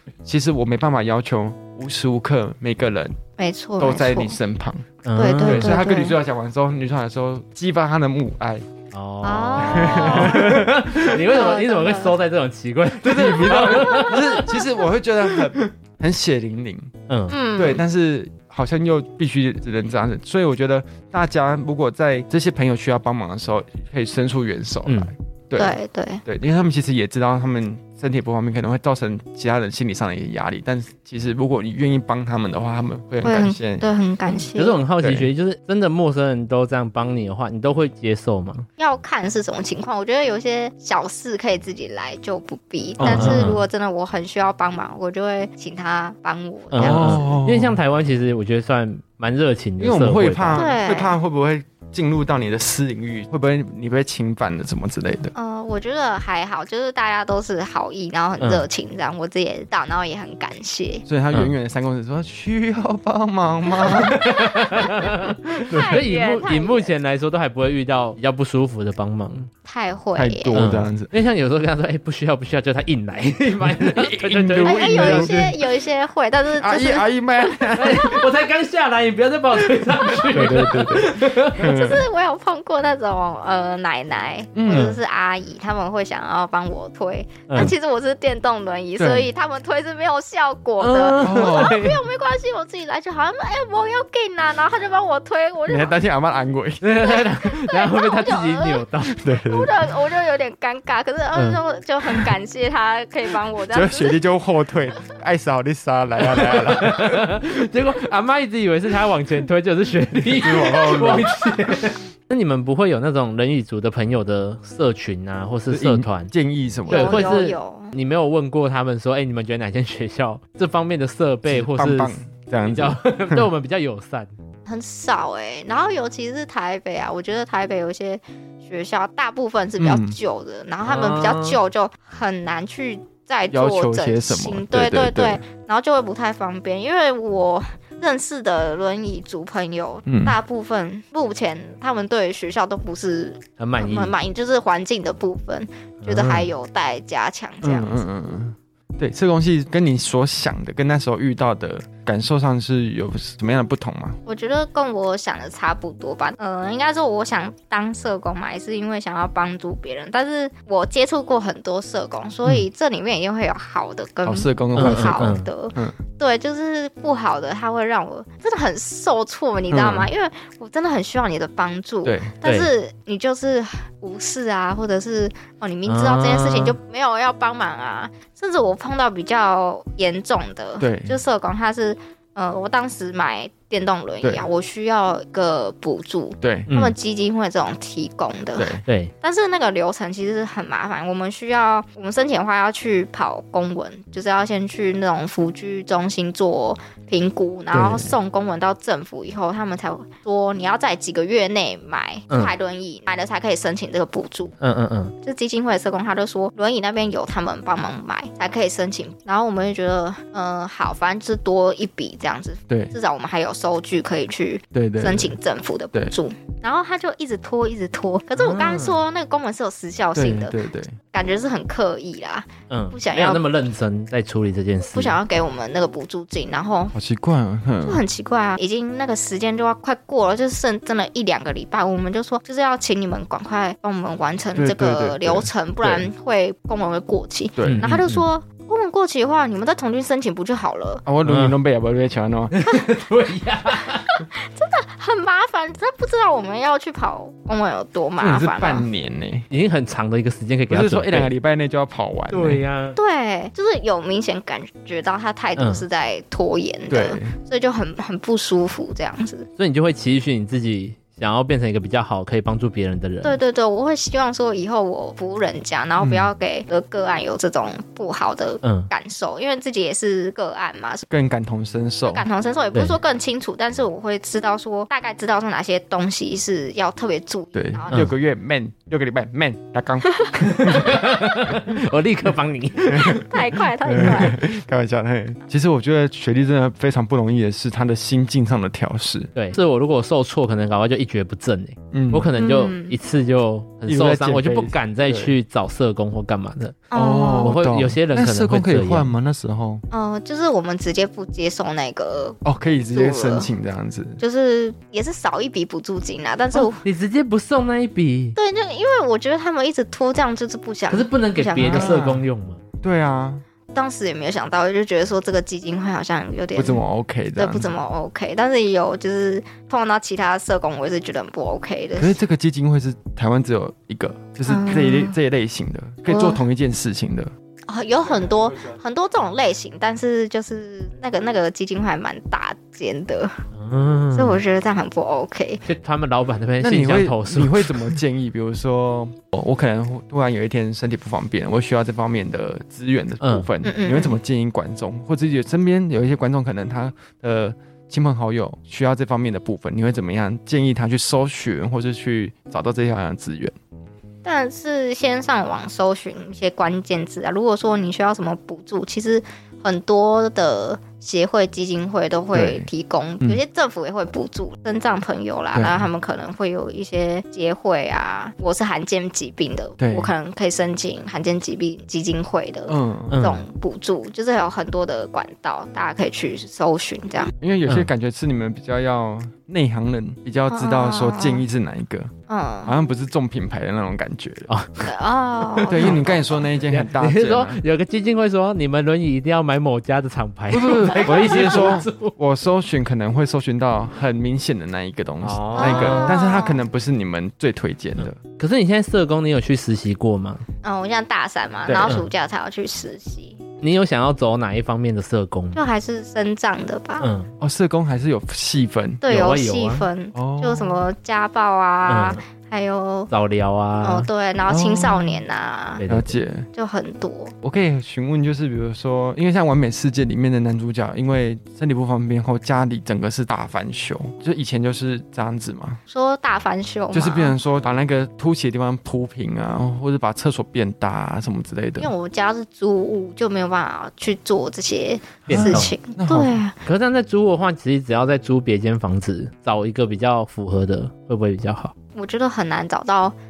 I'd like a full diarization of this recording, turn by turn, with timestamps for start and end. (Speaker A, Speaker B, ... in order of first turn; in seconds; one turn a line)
Speaker A: 0.2-3.2
Speaker B: 3.4-4.4
Speaker A: 3.8-4.8
Speaker C: 5.0-5.8
Speaker B: 5.2-6.2
Speaker A: 5.4-8.7
Speaker C: 8.9-14.6
Speaker B: 9.2-12.2
Speaker A: 9.6-11.2
Speaker A: 13.0-16.9
Speaker B: 13.7-14.7
Speaker C: 17.1-17.4
Speaker B: 17.3-17.8
Speaker A: 17.6-33.9
Speaker C: 24.9-25.1
Speaker B: 25.6-26.2
Speaker B: 33.2-34.8
Speaker C: 34.5-38.7
Speaker A: 35.0-35.3
Speaker B: 38.8-47.3
Speaker A: 43.0-43.6
Speaker C: 43.0-43.6
Speaker C: 46.7-50.7
Speaker A: 46.8-47.8
Speaker A: 49.8-55.3
Speaker B: 50.5-51.2
Speaker B: 55.4-61.0
Speaker C: 58.4-58.6
Speaker A: 61.1-64.9
Speaker C: 63.8-69.5
Speaker B: 63.8-64.1
Speaker A: 65.6-66.0
Speaker B: 65.7-66.9
Speaker B: 69.7-70.6
Speaker A: 70.2-71.1
Speaker C: 70.5-75.5
Speaker A: 73.6-75.5
Speaker B: 74.7-78.2
Speaker A: 76.6-78.3
Speaker C: 77.7-81.8
Speaker A: 80.2-82.1
Speaker B: 81.5-96.0
Speaker A: 84.5-85.0
Speaker C: 84.7-85.0
Speaker C: 87.5-87.7
Speaker A: 89.0-89.3
Speaker C: 90.8-92.0
Speaker A: 91.2-91.8
Speaker A: 95.7-96.8
Speaker C: 96.8-99.2
Speaker B: 97.0-98.9
Speaker A: 99.1-99.7
Speaker B: 99.5-104.2
Speaker C: 101.3-101.6
Speaker A: 103.7-107.4
Speaker C: 106.4-116.3
Speaker A: 110.3-111.7
Speaker A: 115.7-117.4
Speaker B: 116.9-118.0
Speaker C: 116.9-124.3
Speaker A: 121.5-123.5
Speaker B: 124.7-148.0
Speaker A: 129.8-130.2
Speaker C: 130.8-131.6
Speaker A: 133.5-135.4
Speaker A: 140.1-140.4
Speaker C: 143.6-144.1
Speaker C: 146.0-146.5
Speaker A: 147.6-154.2
Speaker B: 154.3-204.6
Speaker A: 164.2-166.0
Speaker C: 164.8-165.5
Speaker A: 169.7-170.1
Speaker A: 172.0-172.3
Speaker C: 172.4-172.7
Speaker C: 175.9-176.8
Speaker A: 180.8-181.2
Speaker A: 186.4-186.7
Speaker C: 186.7-186.9
Speaker A: 188.6-188.8
Speaker C: 188.9-189.1
Speaker C: 197.7-198.1
Speaker C: 204.6-205.1
Speaker B: 205.2-220.6
Speaker A: 214.7-215.3
Speaker C: 218.4-219.0
Speaker A: 220.2-221.0
Speaker B: 221.1-223.4
Speaker C: 222.7-225.2
Speaker B: 224.9-226.9
Speaker A: 226.9-228.0
Speaker B: 227.8-241.0
Speaker A: 234.6-236.1
Speaker A: 237.6-237.9
Speaker C: 237.6-238.2
Speaker A: 241.1-242.5
Speaker C: 241.2-241.6
Speaker C: 242.5-244.1
Speaker B: 244.1-248.9
Speaker A: 248.2-249.5
Speaker C: 249.5-251.3
Speaker A: 250.7-252.6
Speaker C: 252.3-253.0
Speaker B: 253.0-259.5
Speaker C: 255.6-255.8
Speaker A: 256.9-257.4
Speaker C: 259.6-263.4
Speaker B: 263.2-271.0
Speaker A: 266.0-266.3
Speaker C: 268.6-268.9
Speaker A: 271.1-272.3
Speaker B: 272.1-278.1
Speaker A: 277.6-281.0
Speaker B: 280.1-280.9
Speaker C: 280.5-283.4
Speaker A: 282.9-283.2
Speaker B: 283.2-284.4
Speaker A: 283.9-289.4
Speaker C: 289.4-299.1
Speaker A: 291.9-292.3
Speaker B: 292.4-293.0
Speaker A: 293.9-295.3
Speaker B: 296.9-297.6
Speaker A: 296.9-299.8
Speaker B: 299.9-302.4
Speaker A: 302.4-304.2
Speaker B: 302.9-303.5
Speaker B: 304.2-306.9
Speaker C: 306.6-308.4
Speaker B: 308.4-312.0
Speaker C: 310.9-312.6
Speaker A: 311.6-312.2
Speaker A: 312.8-313.4
Speaker B: 313.7-316.8
Speaker A: 316.6-317.7
Speaker B: 317.4-322.2
Speaker A: 322.0-327.3
Speaker B: 324.5-325.2
Speaker B: 326.1-326.4
Speaker B: 327.7-333.4
Speaker C: 333.5-334.4
Speaker B: 334.1-335.6
Speaker C: 335.6-338.0
Speaker A: 336.6-353.6
Speaker C: 343.2-343.5
Speaker B: 343.6-344.2
Speaker B: 354.2-377.3
Speaker A: 362.3-362.7
Speaker A: 365.5-365.9
Speaker A: 369.8-370.1
Speaker A: 372.7-373.2
Speaker C: 373.1-373.4
Speaker A: 377.3-382.1
Speaker B: 380.5-381.5
Speaker B: 382.3-382.8
Speaker A: 382.6-384.5
Speaker C: 384.5-384.9
Speaker B: 384.9-386.3
Speaker C: 385.4-386.0
Speaker A: 385.6-387.6
Speaker C: 386.7-392.1
Speaker A: 390.5-398.2
Speaker C: 395.2-396.2
Speaker B: 395.6-396.6
Speaker C: 398.0-400.4
Speaker B: 400.6-403.4
Speaker A: 401.7-402.0
Speaker C: 403.6-405.6
Speaker B: 405.6-407.1
Speaker C: 407.0-407.3
Speaker A: 407.4-409.0
Speaker B: 409.0-413.1
Speaker C: 409.1-409.9
Speaker A: 410.1-410.8
Speaker C: 411.9-412.2
Speaker C: 413.1-414.1
Speaker B: 413.8-415.8
Speaker A: 414.5-415.2
Speaker C: 415.8-416.2
Speaker A: 415.9-416.5
Speaker B: 416.6-417.3
Speaker A: 417.4-425.8
Speaker B: 425.9-427.4
Speaker A: 426.9-431.9
Speaker B: 431.8-436.6
Speaker A: 435.3-436.4
Speaker C: 435.3-435.8
Speaker C: 436.6-441.7
Speaker B: 441.9-443.1